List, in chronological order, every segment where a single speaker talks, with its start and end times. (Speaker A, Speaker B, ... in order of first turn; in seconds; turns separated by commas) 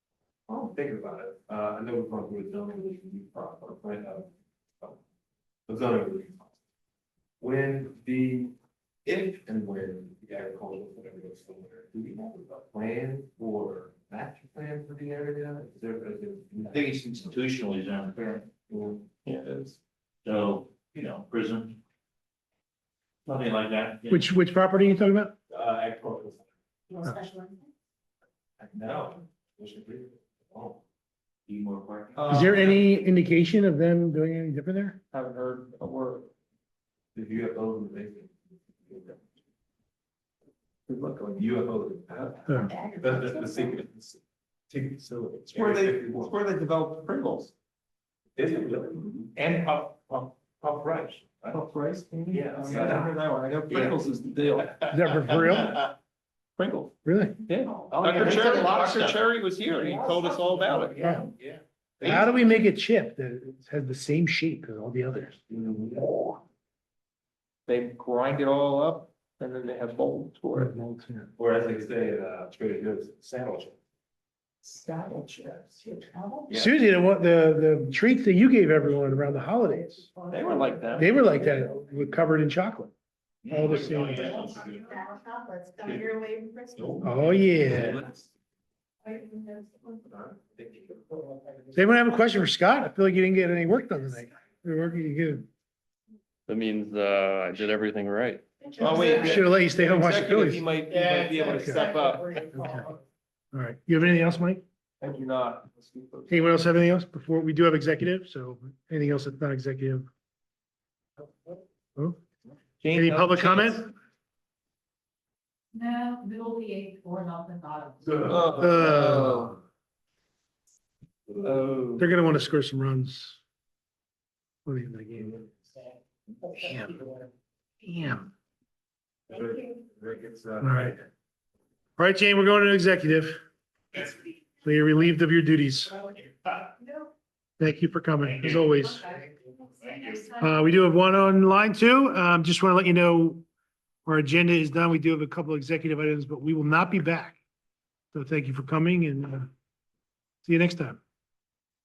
Speaker A: 0.5-4.3, Speaker A: 5.7-6.5, Speaker A: 7.4-8.5, Speaker A: 9.1-16.9, Speaker B: 16.7-18.5, Speaker A: 18.7-19.1, Speaker C: 19.2-19.8, Speaker B: 20.2-21.8, Speaker B: 23.3-24.3, Speaker D: 24.1-25.4, Speaker A: 25.5-26.5, Speaker E: 26.9-27.7, Speaker A: 28.6-30.8, Speaker B: 31.5-32.4, Speaker C: 32.1-32.9, Speaker D: 32.3-35.0, Speaker C: 35.1-36.3, Speaker A: 37.1-38.3, Speaker A: 38.9-39.2, Speaker C: 40.9-41.5, Speaker A: 41.4-46.4, Speaker D: 42.5-42.7, Speaker E: 42.5-43.8, Speaker C: 45.5-47.5, Speaker A: 48.4-49.3, Speaker C: 49.3-50.2, Speaker A: 50.1-51.6, Speaker C: 51.5-55.4, Speaker A: 52.3-53.2, Speaker A: 53.7-54.0, Speaker A: 54.6-55.7, Speaker D: 54.9-55.8, Speaker C: 56.6-56.9, Speaker D: 57.0-57.4, Speaker C: 57.5-61.2, Speaker A: 57.9-59.2, Speaker A: 60.6-62.3, Speaker D: 61.0-61.3, Speaker D: 62.0-65.4, Speaker A: 65.5-66.1, Speaker C: 66.0-66.4, Speaker C: 67.7-70.8, Speaker D: 70.5-71.3, Speaker A: 71.4-73.8, Speaker C: 74.7-75.8, Speaker E: 75.8-76.5, Speaker D: 76.5-80.1, Speaker E: 80.2-80.8, Speaker C: 80.3-81.2, Speaker D: 81.0-82.9, Speaker D: 83.5-84.4, Speaker B: 83.5-84.7, Speaker A: 83.7-84.7, Speaker C: 83.8-84.3, Speaker E: 84.3-87.1, Speaker A: 86.8-88.1, Speaker D: 87.0-88.0, Speaker E: 89.0-90.1, Speaker A: 90.1-91.0, Speaker D: 91.7-95.5, Speaker F: 96.5-98.4, Speaker E: 98.6-99.4, Speaker C: 98.8-102.5, Speaker D: 99.0-100.7, Speaker E: 101.0-102.8, Speaker D: 101.5-101.9, Speaker D: 102.5-102.9, Speaker D: 103.5-104.6, Speaker C: 105.0-106.6, Speaker D: 106.3-110.1, Speaker C: 112.8-113.9, Speaker D: 112.9-113.9, Speaker E: 115.7-118.4, Speaker A: 118.0-118.6, Speaker C: 118.3-119.6, Speaker D: 118.6-119.6, Speaker C: 121.4-122.1, Speaker D: 122.0-123.4, Speaker D: 124.7-125.4, Speaker D: 126.6-127.0, Speaker D: 127.8-128.3, Speaker A: 129.3-131.0, Speaker D: 130.6-131.0, Speaker D: 132.0-133.4, Speaker D: 134.6-136.0, Speaker D: 137.6-139.1, Speaker E: 138.8-140.4, Speaker D: 140.4-143.4, Speaker D: 144.1-147.4, Speaker D: 148.1-149.5, Speaker D: 150.4-151.0